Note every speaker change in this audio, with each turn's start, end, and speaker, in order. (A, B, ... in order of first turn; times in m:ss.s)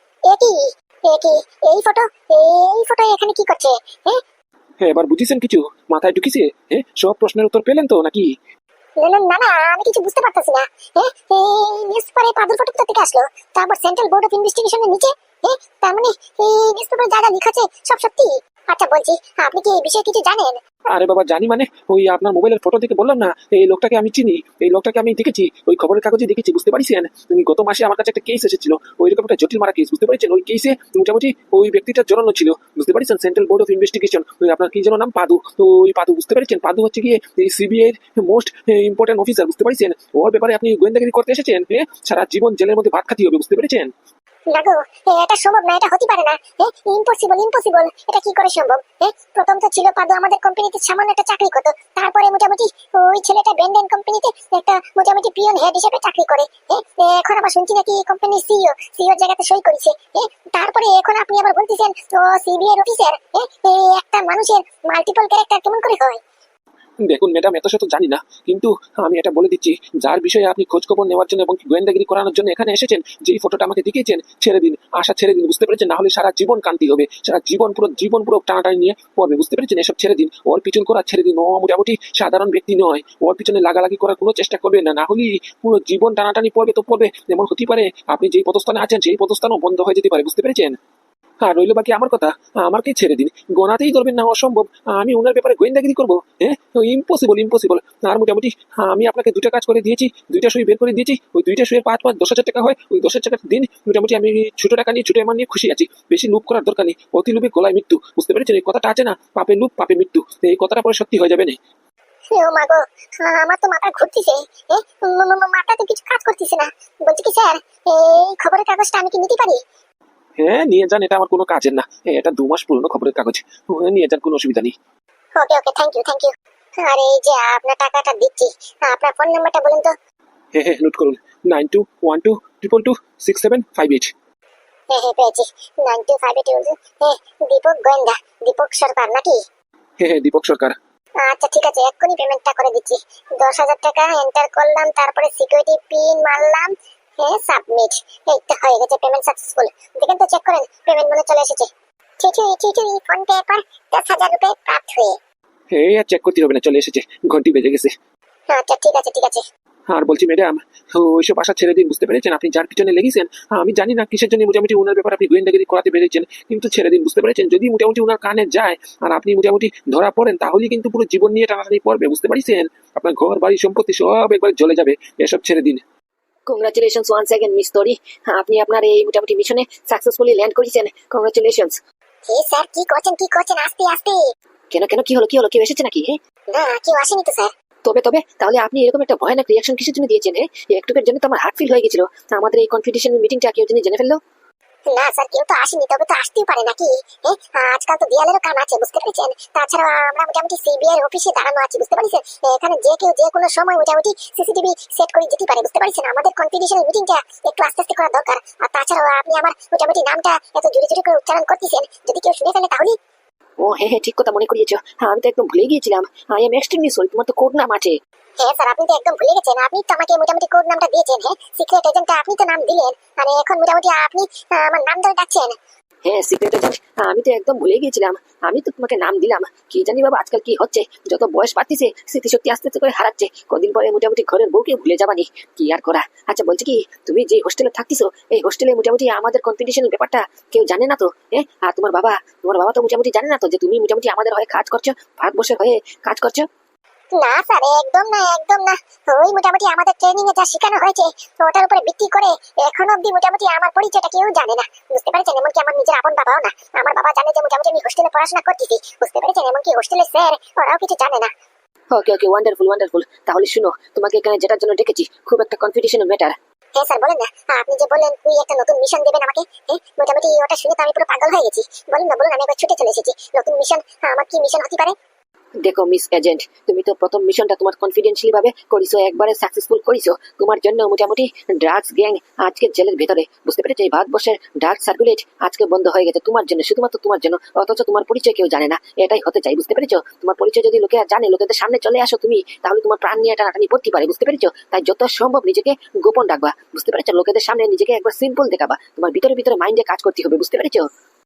0:00.3-0:04.2 A
0:04.8-0:08.3 B
0:09.0-0:20.6 A
0:20.9-0:43.9 B
0:44.5-1:06.2 A
1:07.1-1:30.8 B
1:31.4-1:51.6 B
1:52.3-1:59.6 A
2:00.4-2:04.7 B
2:05.4-2:09.9 A
2:10.6-2:14.1 B
2:14.9-2:19.4 A
2:20.0-2:20.8 B
2:21.2-2:35.2 A
2:35.7-2:37.9 B
2:38.5-2:39.4 A
2:39.9-2:55.8 B
2:56.5-3:01.8 C
3:02.3-3:04.2 A
3:04.7-3:06.2 C
3:06.5-3:07.5 A
3:07.9-3:14.2 C
3:14.9-3:33.0 A
3:33.6-3:38.0 C
3:38.4-3:45.6 A
3:46.0-4:06.4 C
4:07.2-4:21.3 A
4:21.9-4:26.4 C
4:26.8-4:35.0 A
4:35.6-5:00.9 C